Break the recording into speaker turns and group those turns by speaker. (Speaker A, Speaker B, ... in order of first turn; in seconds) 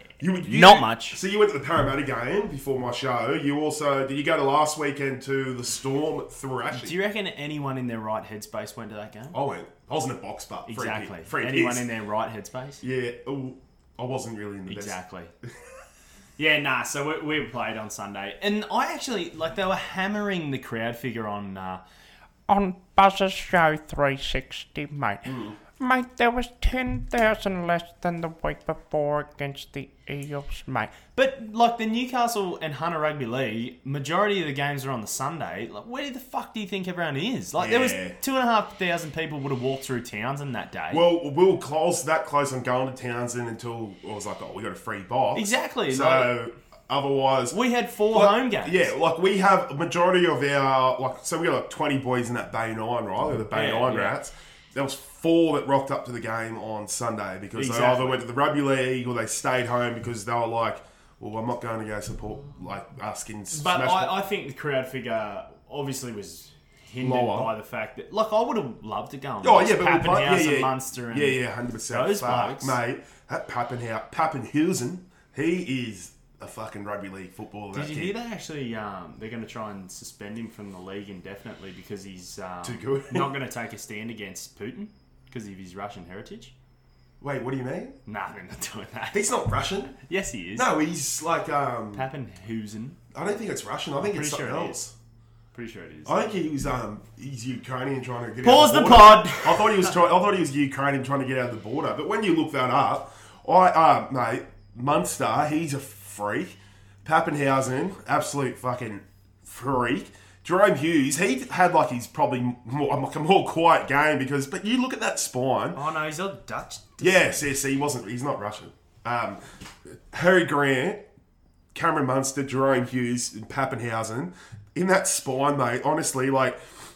Speaker A: 0.2-7.0, 9.3-11.8, 12.8-15.0, 25.2-25.6, 37.6-38.1, 40.9-47.6, 48.1-64.1, 67.0-67.5, 69.4-78.1, 82.6-83.3, 87.2-88.0, 89.1-90.0, 90.5-92.0, 93.1-94.9, 96.0-115.8, 117.0-121.0, 121.7-126.6
Speaker B: 0.4-1.2, 6.7-9.3, 10.7-12.8, 14.7-15.3, 16.4-21.8, 31.1-41.0, 45.3-46.3, 47.5-48.9, 53.5-54.2, 57.5-58.2, 63.5-72.8, 77.7-86.5, 88.0-89.3, 90.0-90.7, 91.9-93.0, 94.0-94.8, 95.5-96.4, 98.4-99.9, 115.7-117.4
Speaker C: 22.5-30.9